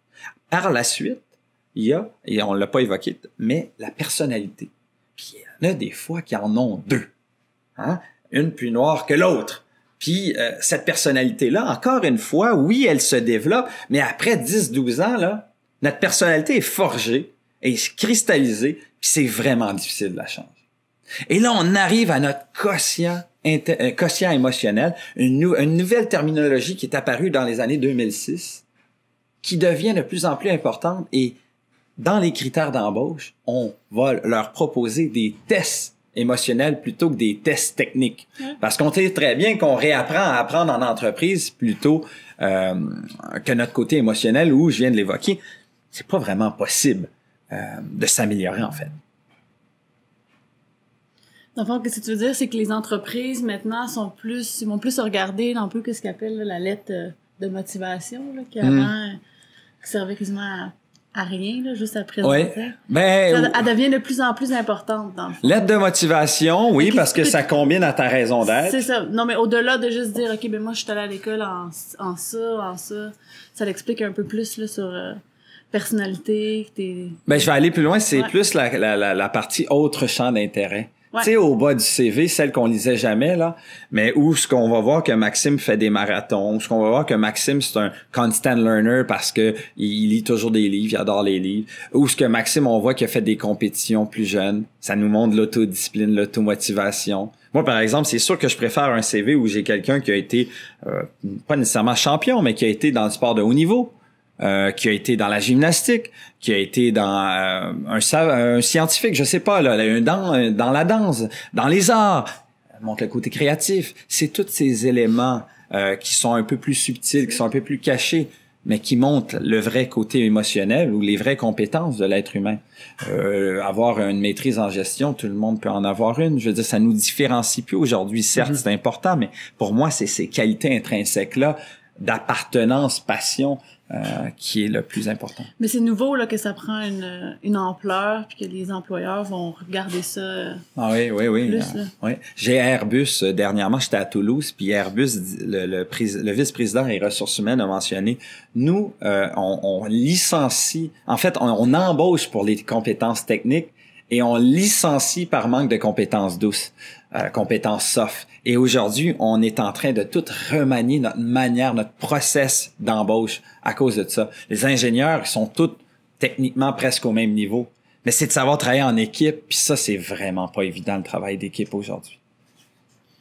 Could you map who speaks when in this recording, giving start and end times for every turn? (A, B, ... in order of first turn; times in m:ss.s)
0:00.5-0:07.1 A
0:07.8-0:20.6 A
0:21.3-0:28.6 A
0:29.4-0:31.4 A
0:32.0-0:45.4 A
0:45.9-0:49.0 A
0:51.6-0:59.2 B
0:58.6-0:58.9 A
0:59.8-1:02.8 B
1:02.2-1:03.6 A
1:03.3-1:05.4 B
1:05.4-1:08.8 A
1:06.8-1:07.4 B
1:08.6-1:15.2 B
1:15.7-1:17.3 B
1:17.3-1:52.3 A
1:52.8-2:15.5 A
2:15.6-2:20.6 B
2:20.8-2:52.2 A
2:21.5-2:21.9 B